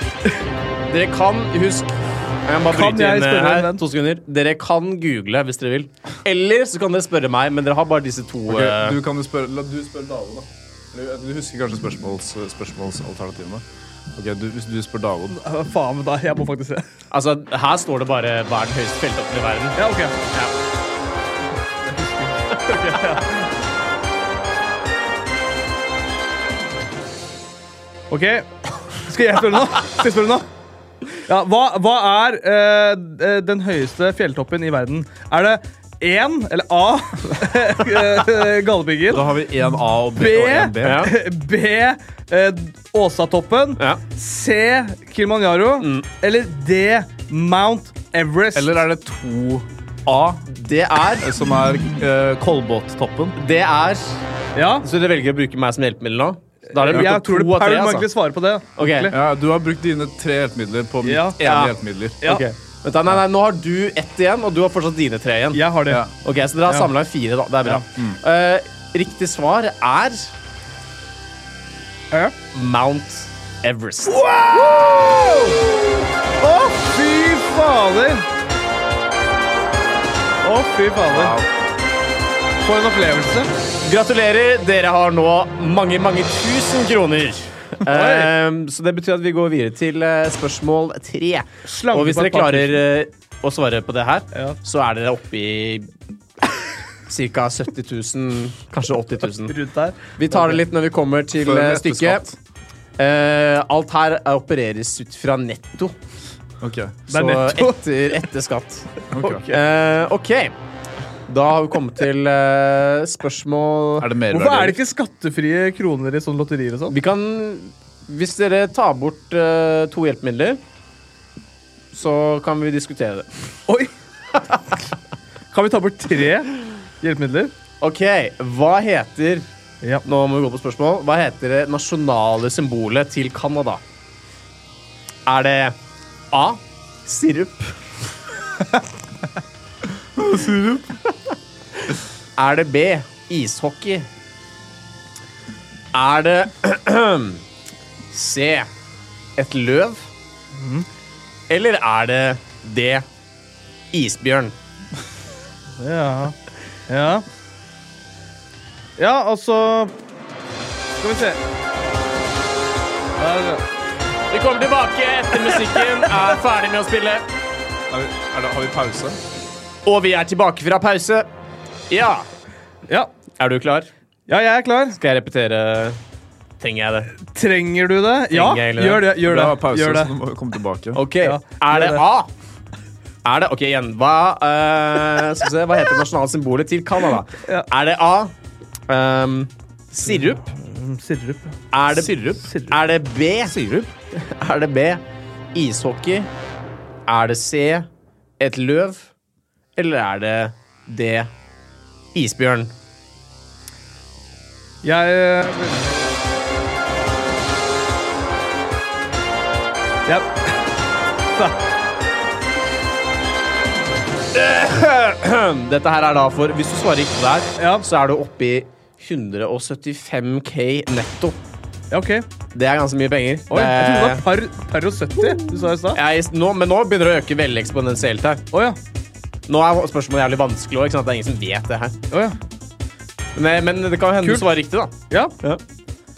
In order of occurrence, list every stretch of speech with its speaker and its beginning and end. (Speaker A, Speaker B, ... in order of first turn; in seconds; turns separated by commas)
Speaker A: 0.9-1.9, Speaker A: 2.5-9.0, Speaker B: 2.7-3.8, Speaker C: 8.5-15.4, Speaker B: 15.3-16.9, Speaker A: 17.1-20.5, Speaker B: 19.8-20.2, Speaker B: 21.8-23.5, Speaker B: 28.1-30.5, Speaker B: 31.3-39.3, Speaker C: 39.1-41.1, Speaker B: 40.2-48.8, Speaker A: 40.8-41.1, Speaker A: 45.8-46.1, Speaker C: 48.5-50.5, Speaker A: 50.5-51.3, Speaker C: 51.2-53.4, Speaker A: 53.4-54.2, Speaker B: 54.5-54.9, Speaker A: 54.8-58.1, Speaker B: 56.7-59.1, Speaker A: 58.8-59.1, Speaker C: 59.1-62.2, Speaker B: 61.0-61.4, Speaker A: 61.4-65.7, Speaker B: 65.5-66.1, Speaker A: 66.2-70.3, Speaker C: 68.0-68.2, Speaker A: 72.5-74.2, Speaker B: 74.1-75.8, Speaker B: 76.4-78.3, Speaker B: 80.4-81.4, Speaker C: 81.1-81.5, Speaker B: 82.6-83.5, Speaker A: 83.8-95.9, Speaker B: 87.9-88.3, Speaker B: 91.7-92.9, Speaker A: 97.1-99.5, Speaker B: 99.5-100.6, Speaker A: 100.2-102.2, Speaker C: 101.4-102.4, Speaker A: 103.0-106.0, Speaker C: 106.6-107.0, Speaker A: 107.1-110.5, Speaker B: 107.1-107.8, Speaker C: 109.1-109.5, Speaker A: 111.3-114.1, Speaker C: 114.0-114.8, Speaker B: 114.3-116.9, Speaker A: 116.9-120.6, Speaker A: 121.9-123.3, Speaker B: 123.7-123.9, Speaker B: 125.5-127.5, Speaker A: 127.8-129.5, Speaker A: 130.0-133.8, Speaker A: 135.3-135.8, Speaker A: 136.3-137.8, Speaker C: 140.2-140.9, Speaker A: 142.4-144.1, Speaker A: 145.9-147.4, Speaker A: 148.1-148.7, Speaker A: 149.4-150.1, Speaker B: 150.5-150.9, Speaker A: 151.5-153.1, Speaker A: 153.9-154.6, Speaker B: 155.8-156.4, Speaker B: 156.9-157.3, Speaker B: 159.0-159.9, Speaker B: 161.0-161.4, Speaker B: 163.2-163.6, Speaker A: 164.3-167.3, Speaker C: 167.9-169.2, Speaker A: 169.8-171.3, Speaker A: 171.9-172.3, Speaker A: 173.4-173.9, Speaker B: 174.3-175.0, Speaker A: 174.9-176.0, Speaker A: 176.6-177.1, Speaker B: 177.3-180.2, Speaker A: 178.3-179.1, Speaker C: 179.2-181.0, Speaker A: 180.9-182.3, Speaker B: 181.2-182.0, Speaker A: 183.2-188.3, Speaker A: 188.9-190.5, Speaker B: 190.1-192.8, Speaker A: 191.7-193.6, Speaker C: 193.5-193.9, Speaker A: 194.1-195.0, Speaker A: 195.5-196.3, Speaker A: 197.1-197.9, Speaker A: 198.4-199.1, Speaker A: 199.8-201.3, Speaker A: 202.1-202.7, Speaker B: 204.8-206.2, Speaker B: 210.1-210.7, Speaker A: 214.3-221.4, Speaker B: 217.6-217.8, Speaker B: 221.9-222.3, Speaker A: 222.5-224.2, Speaker B: 223.5-226.0, Speaker A: 225.9-228.4, Speaker B: 228.5-228.8, Speaker A: 229.5-231.9, Speaker B: 232.1-232.4, Speaker A: 233.3-235.6